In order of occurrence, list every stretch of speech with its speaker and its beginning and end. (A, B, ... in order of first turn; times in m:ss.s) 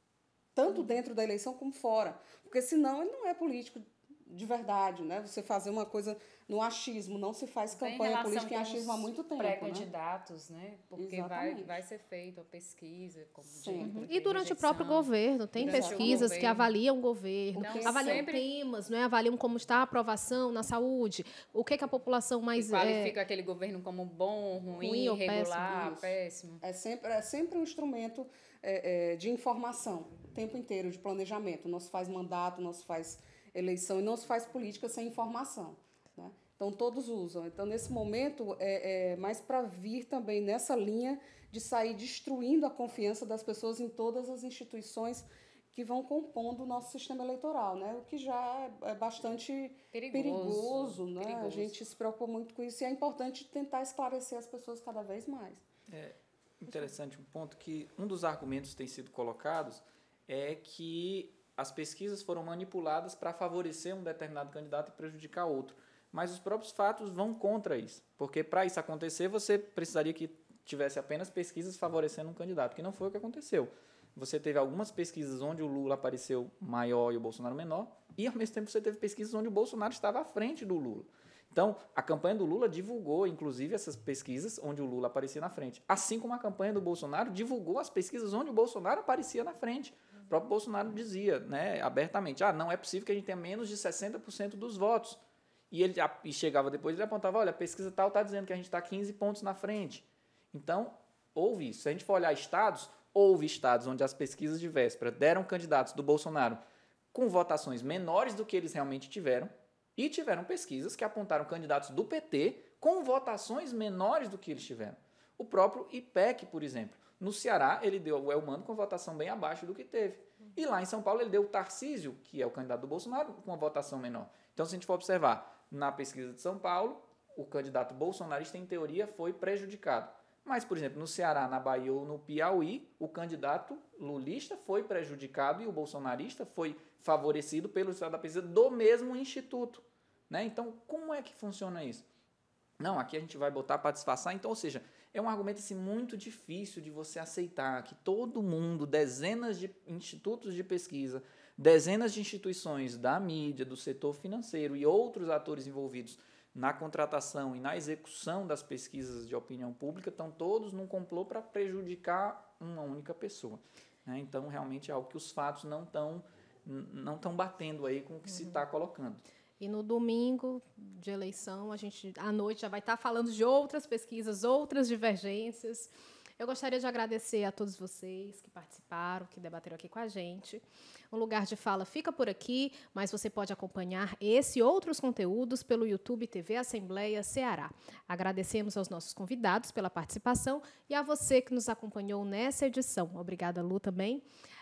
0:00.6-0:09.9 A
0:00.7-0:01.0 B
0:07.7-0:16.7 B
0:11.0-0:11.7 A
0:13.5-0:14.0 A
0:13.8-0:23.2 C
0:15.6-0:16.4 A
0:17.6-0:18.5 B
0:17.6-0:18.2 A
0:22.6-0:26.6 B
0:24.8-0:25.7 C
0:25.7-0:55.6 A
0:49.9-0:51.8 B
0:55.9-1:46.6 D
1:47.1-2:22.1 D
2:22.8-2:49.2 D
2:48.3-2:48.6 C
2:49.6-3:14.2 C